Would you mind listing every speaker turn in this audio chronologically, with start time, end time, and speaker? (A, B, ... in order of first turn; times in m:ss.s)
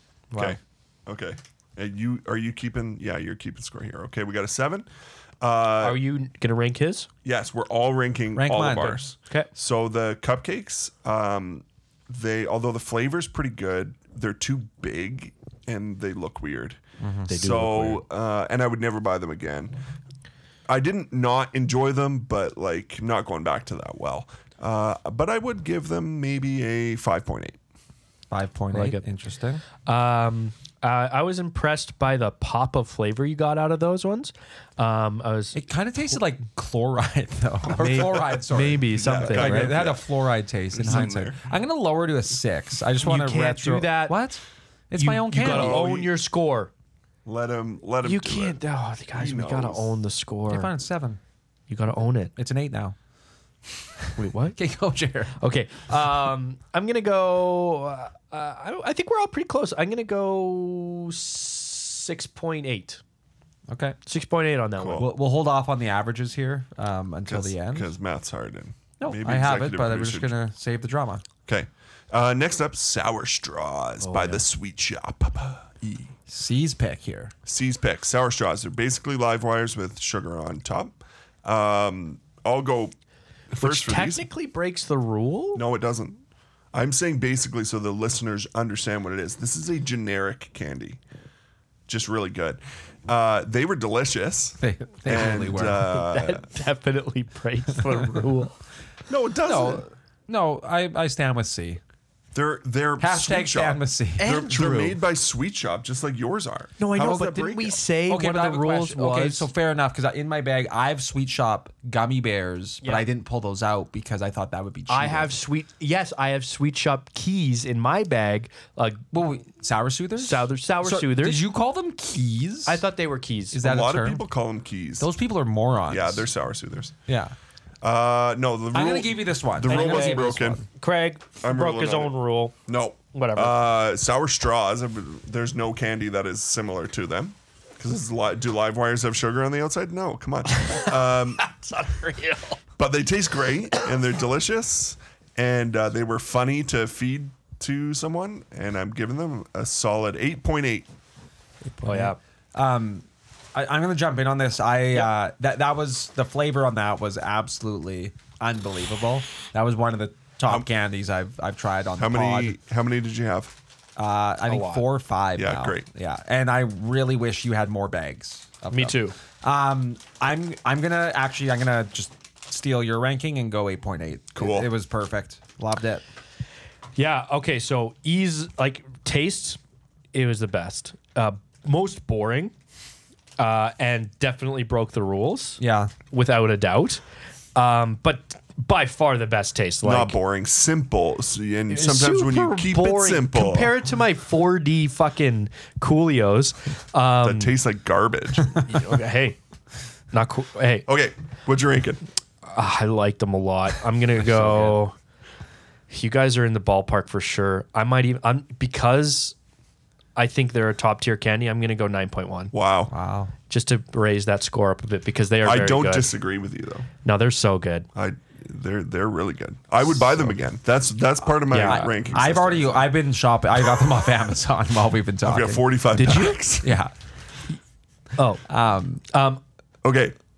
0:00.3-0:00.6 A
0:00.3-0:04.9 B
0:05.4-0:06.0 B
0:05.8-0:07.1 A
0:07.2-0:19.8 B
0:08.4-0:09.0 C
0:17.0-0:17.3 C
0:17.3-0:18.0 A
0:20.7-0:27.6 B
0:28.3-0:29.6 C
0:28.7-0:29.0 A
0:29.8-0:35.6 A
0:35.5-0:45.8 C
0:37.7-0:39.8 A
0:38.9-0:40.0 B
0:40.7-0:41.4 B
0:43.0-0:44.2 A
0:45.0-0:46.7 A
0:45.4-0:46.1 B
0:47.2-0:48.6 B
0:48.0-0:50.7 A
0:49.1-0:49.9 B
0:50.5-0:51.2 C
0:51.7-0:52.3 A
0:52.4-0:53.0 C
0:54.1-0:55.4 C
0:54.2-0:54.6 A
0:55.3-1:03.0 A
1:03.7-1:04.0 C
1:04.1-1:05.1 A
1:04.8-1:05.1 B
1:05.0-1:07.9 C
1:07.3-1:10.3 B
1:09.0-1:11.2 C
1:11.5-1:16.1 B
1:14.0-1:14.4 A
1:16.3-1:17.3 C
1:17.5-1:22.9 B
1:23.5-1:24.3 B
1:23.6-1:25.6 A
1:25.5-1:26.2 B
1:26.7-1:31.0 B
1:31.9-1:36.5 B
1:34.6-1:35.9 C
1:35.8-1:38.6 A
1:39.1-1:39.9 B
1:39.4-1:41.8 C
1:42.3-1:47.8 B
1:43.0-1:44.7 C
1:44.2-1:45.0 A
1:46.8-1:49.5 A
1:48.1-1:55.4 C
1:54.9-1:59.0 A
1:59.1-2:02.8 C
2:00.2-2:01.4 A
2:02.7-2:03.6 A
2:03.5-2:04.2 C
2:03.6-2:05.1 B
2:05.0-2:06.3 C
2:05.9-2:07.0 B
2:07.1-2:07.3 C
2:07.8-2:10.6 B
2:08.7-2:10.7 C
2:09.7-2:12.6 A
2:11.4-2:12.2 B
2:12.7-2:21.5 B
2:13.1-2:13.6 A
2:20.5-2:22.6 A
2:22.8-2:30.9 B
2:31.6-2:42.6 C
2:31.8-2:32.2 A
2:42.0-2:43.6 B
2:44.0-2:56.0 C
2:44.5-2:44.8 A
2:45.4-2:45.9 B
2:48.7-2:49.2 A
2:54.4-2:54.7 B
2:57.0-2:59.6 A
3:00.1-3:02.5 A
3:03.4-3:05.6 A
3:05.6-3:05.9 C
3:06.1-3:07.0 A
3:07.6-3:10.2 A
3:09.8-3:13.7 B
3:11.7-3:17.6 A
3:17.2-3:18.6 B
3:18.6-3:19.4 A
3:20.1-3:20.9 A
3:20.9-3:22.0 B
3:22.4-3:24.9 A
3:24.2-3:24.8 C
3:25.9-3:29.4 A
3:30.2-3:32.5 A
3:32.5-3:32.9 B
3:32.9-3:33.3 C
3:33.5-3:36.1 A
3:35.4-3:36.9 B
3:37.0-3:37.9 A
3:38.0-3:43.0 B
3:41.5-3:41.9 A
3:41.5-3:45.8 C
3:45.2-3:46.7 B
3:46.0-3:46.4 A
3:46.6-3:46.9 C
3:48.2-3:48.4 A
3:48.5-3:49.0 C
3:49.1-3:49.4 A
3:49.8-3:50.2 B